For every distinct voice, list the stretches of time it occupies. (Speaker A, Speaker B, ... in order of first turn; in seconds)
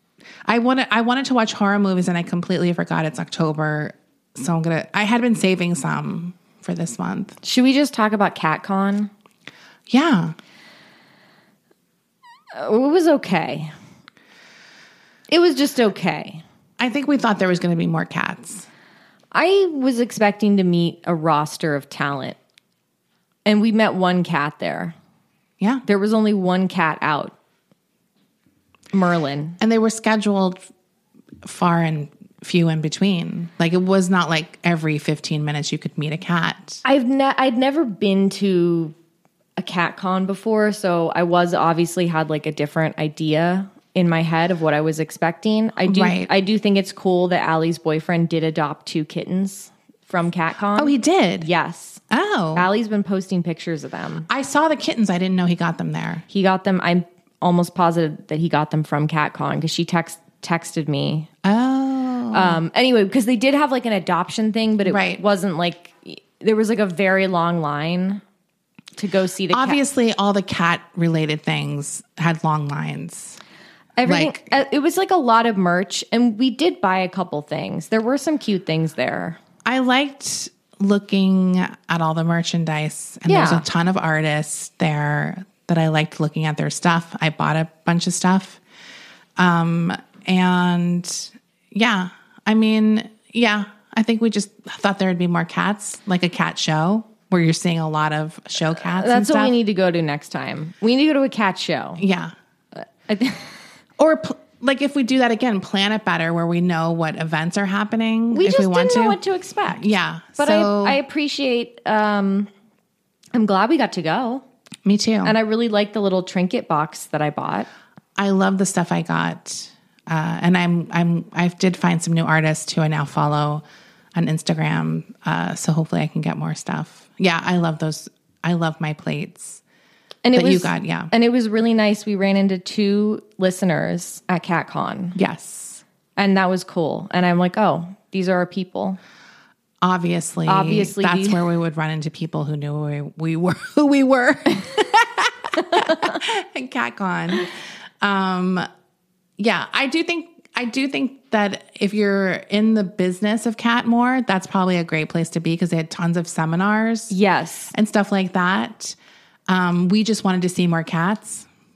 Speaker A: 0.5-7.4, 9.9-10.3, 16.8-18.7, 29.6-30.6, 31.4-36.8, 45.9-46.3, 50.7-51.5, 52.1-52.7, 54.3-56.2, 61.4-62.6, 64.8-65.2, 69.5-73.4, 74.0-74.5, 79.6-88.6, 89.4-99.5, 102.0-102.3, 104.0-111.0, 114.8-115.3, 118.2-123.6, 124.1-129.6, 130.3-131.1, 135.1-135.8, 139.8-147.5, 148.0-148.7, 149.4-157.1, 157.7-158.9, 159.5-161.5
Speaker B: 7.4-9.1, 12.5-13.7, 15.3-16.4, 19.3-22.4, 23.4-24.9, 25.9-27.3, 28.9-29.6, 36.8-38.9, 39.6-52.0, 52.5-54.3, 56.3-61.3, 62.3-68.2, 69.0-69.8, 74.0-79.4, 83.2-83.6, 98.8-102.0, 102.8-103.5, 108.3-109.8, 110.4-112.5, 113.3-114.4, 115.2-117.7, 130.2-135.2, 136.2-139.0, 140.5-141.4, 157.1-157.7